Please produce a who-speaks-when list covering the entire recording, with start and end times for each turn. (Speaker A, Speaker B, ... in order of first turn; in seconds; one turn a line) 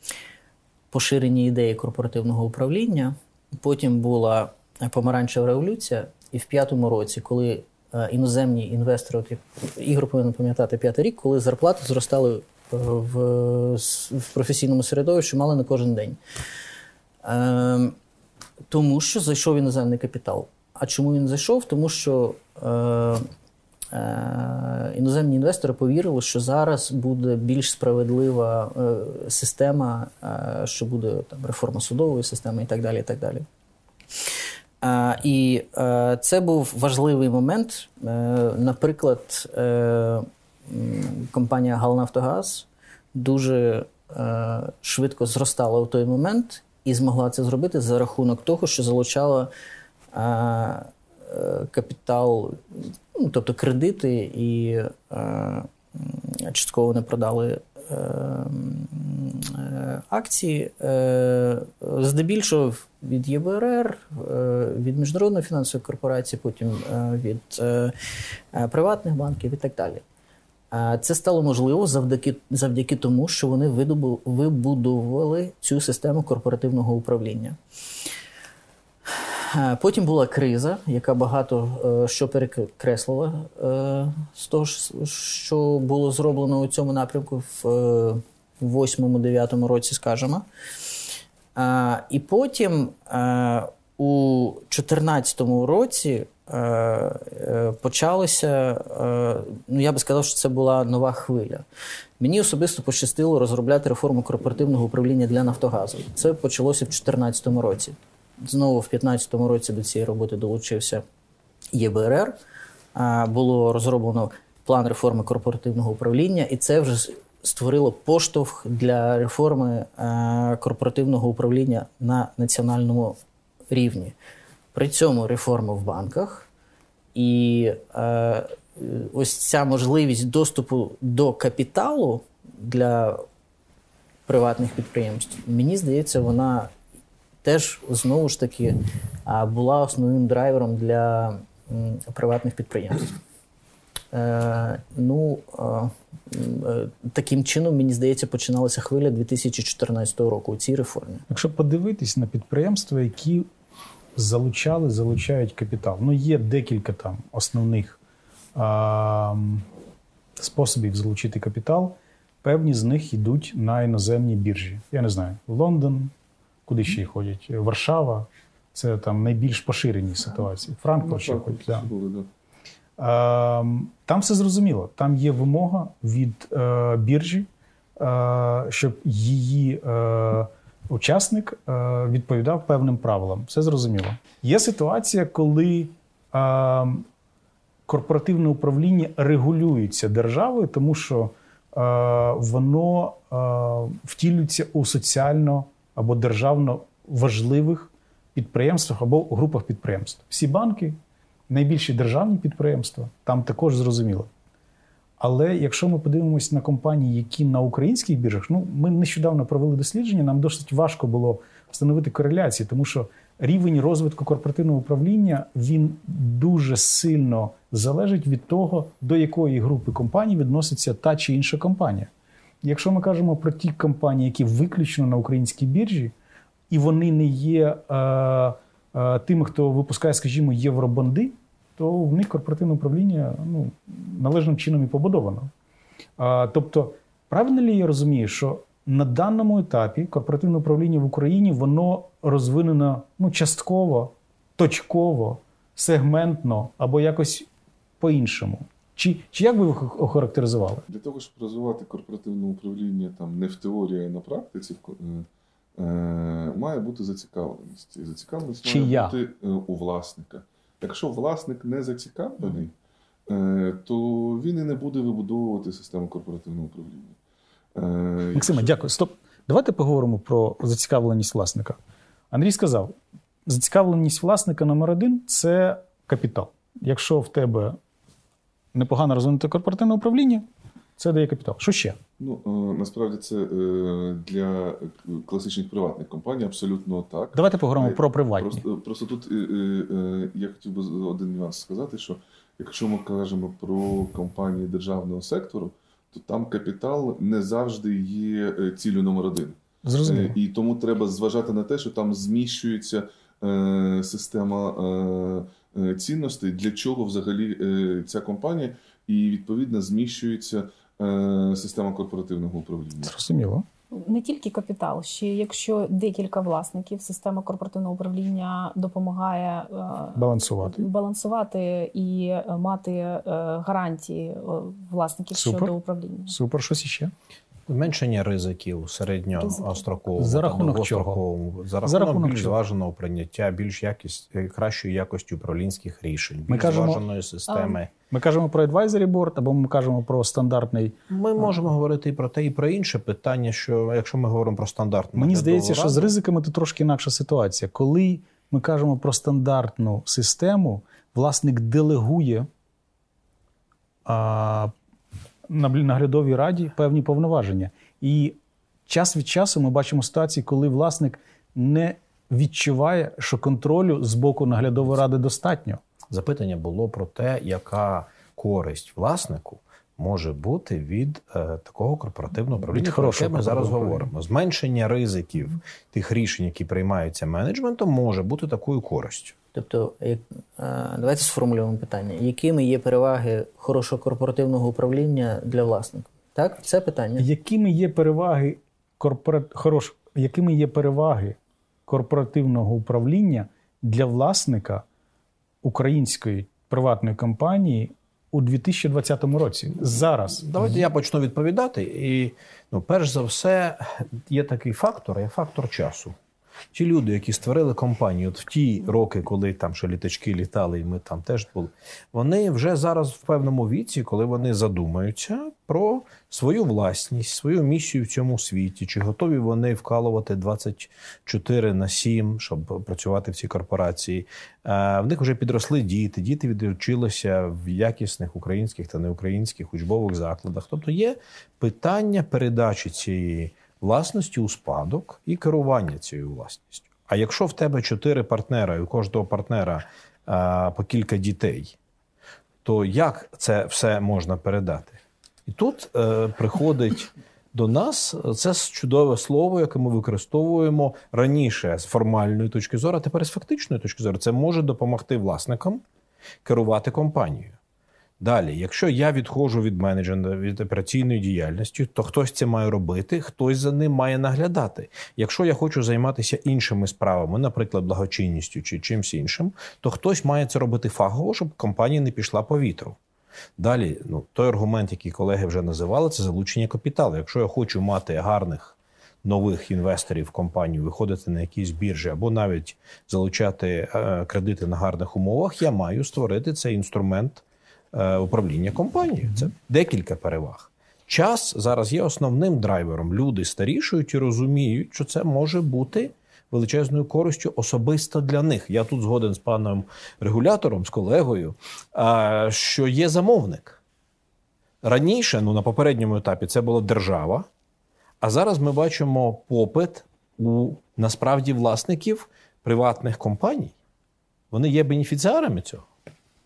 Speaker A: 0.9-16.2
Speaker A: 17.2-17.9
Speaker A: 18.7-23.2
Speaker A: 23.9-33.5
Speaker A: 34.8-49.5
Speaker A: 50.1-67.9
Speaker A: 68.5-70.0
Speaker A: 70.7-77.6
Speaker A: 79.1-90.4
Speaker A: 91.5-101.6
Speaker A: 102.2-111.0
Speaker A: 111.7-112.3
Speaker A: 112.9-123.2
Speaker A: 123.7-124.2
Speaker A: 124.7-126.5
Speaker A: 127.1-133.2
Speaker A: 134.3-136.7
Speaker A: 137.4-143.2
Speaker A: 144.1-151.2
Speaker B: 151.3-153.5
Speaker B: 154.2-158.0
Speaker B: 158.5-159.6
Speaker B: 160.4-166.1
Speaker B: 166.7-171.9
Speaker C: 171.0-172.3
Speaker B: 173.0-177.5
Speaker B: 178.0-187.0
Speaker B: 187.9-201.0
Speaker B: 201.5-204.3
Speaker B: 205.2-222.1
Speaker B: 222.6-226.1
Speaker B: 226.7-235.5
Speaker B: 236.2-247.5
Speaker B: 248.0-250.8
Speaker C: 250.9-262.7
Speaker B: 258.6-259.1
Speaker C: 263.3-267.1
Speaker C: 267.7-268.8
Speaker B: 268.4-271.8
Speaker B: 272.3-277.8
Speaker B: 278.7-280.4
Speaker B: 281.0-282.0
Speaker C: 282.2-313.1
Speaker B: 287.3-288.6
Speaker B: 299.8-300.3
Speaker B: 313.0-313.6
Speaker D: 313.9-326.3
Speaker B: 320.1-320.9
Speaker B: 325.3-325.7
Speaker B: 326.3-327.1
Speaker E: 327.7-337.9
Speaker D: 329.4-329.8
Speaker B: 330.2-331.2
Speaker B: 331.8-332.6
Speaker B: 336.5-337.0
Speaker D: 337.5-337.8
Speaker B: 338.1-341.0
Speaker E: 341.1-346.1
Speaker B: 345.1-352.5
Speaker B: 354.1-354.7
Speaker B: 355.5-358.4
Speaker B: 358.9-365.8
Speaker E: 366.1-379.4
Speaker B: 372.7-374.1
Speaker A: 379.5-387.2
Speaker B: 387.2-394.8
Speaker B: 395.6-400.8
Speaker E: 400.4-406.1
Speaker E: 406.7-441.8
Speaker E: 442.6-455.8
Speaker E: 456.4-457.6
Speaker E: 458.2-473.0
Speaker E: 473.6-503.8
Speaker E: 504.8-507.5
Speaker E: 508.2-513.7
Speaker E: 514.5-515.8